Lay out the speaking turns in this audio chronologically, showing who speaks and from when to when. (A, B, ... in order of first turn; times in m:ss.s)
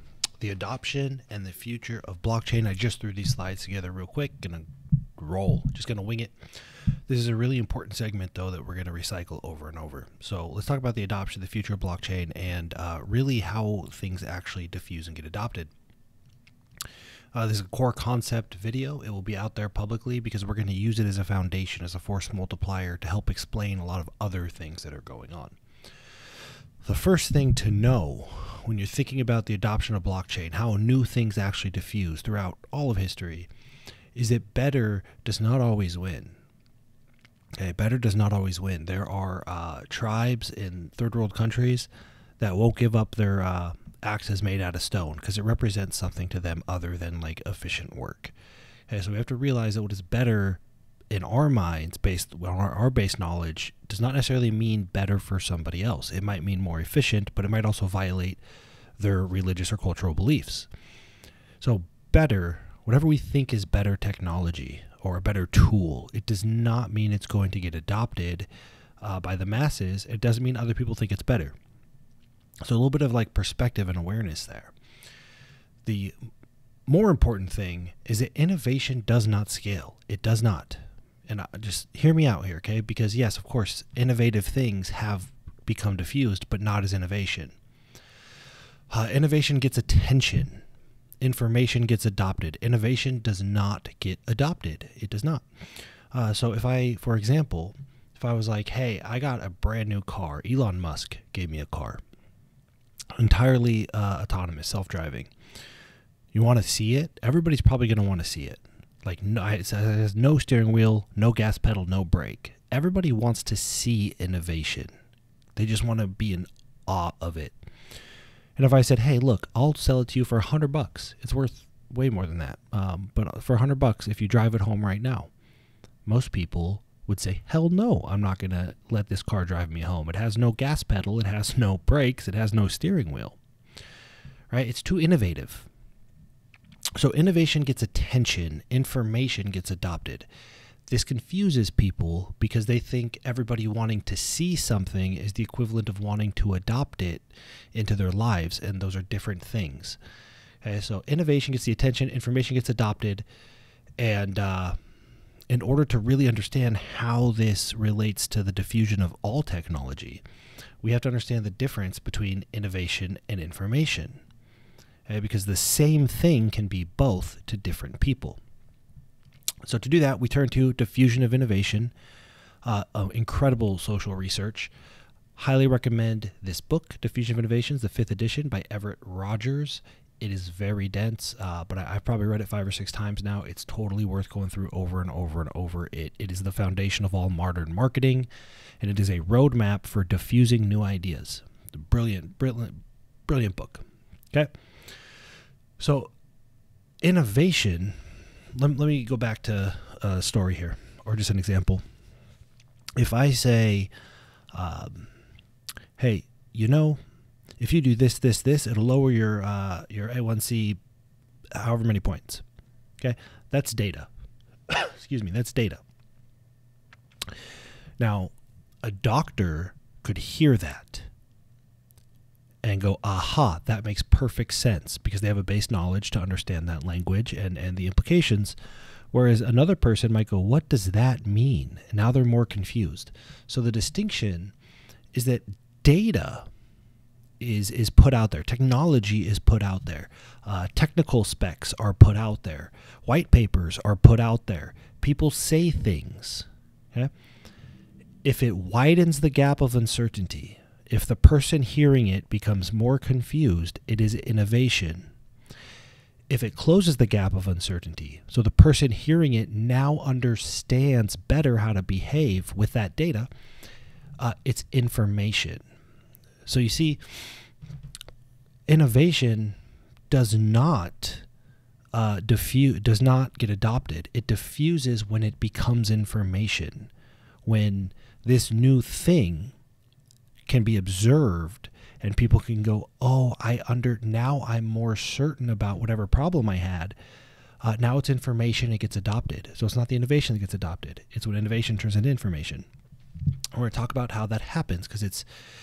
0:00.4-0:06.5 A
0:07.1-0:15.7 A
0:17.3-0:25.6 A
0:26.8-0:33.5 A
0:34.2-0:36.3 A
0:37.6-0:48.3 A
0:48.9-0:58.4 A
0:59.0-1:00.7 A
1:01.6-1:08.5 A
1:09.0-1:11.5 A
1:12.6-1:14.7 A
1:15.8-1:16.1 A
1:16.9-1:27.6 A
1:28.9-1:30.6 A
1:31.2-1:35.5 A
1:36.1-1:42.0 A
1:43.2-1:45.3 A
1:46.3-1:54.9 A
1:55.6-1:57.6 A
1:58.6-2:05.3 A
2:06.0-2:13.4 A
2:14.5-2:15.7 A
2:17.0-2:20.3 A
2:20.9-2:30.0 A
2:30.6-2:33.2 A
2:34.0-2:34.8 A
2:35.5-2:40.2 A
2:40.8-2:44.2 A
2:45.1-2:48.4 A
2:49.6-2:51.9 A
2:52.6-2:54.7 A
2:55.4-3:08.3 A
3:08.8-3:14.5 A
3:15.8-3:16.1 A
3:17.0-3:18.0 A
3:18.6-3:21.8 A
3:23.0-3:23.9 A
3:24.5-3:25.1 A
3:26.0-3:27.0 A
3:27.6-3:30.8 A
3:31.6-3:32.4 A
3:33.0-3:34.1 A
3:34.7-3:35.8 A
3:38.0-3:38.3 A
3:38.8-3:41.1 A
3:42.6-3:48.6 A
3:49.1-3:54.5 A
3:55.1-3:56.5 A
3:57.4-4:07.1 A
4:08.2-4:15.1 A
4:16.3-4:23.3 A
4:24.2-4:25.6 A
4:26.5-4:27.4 A
4:28.7-4:29.6 A
4:30.1-4:31.3 A
4:31.9-4:36.9 A
4:37.4-4:39.5 A
4:40.5-4:47.0 A
4:47.6-4:52.7 A
4:53.6-4:55.2 A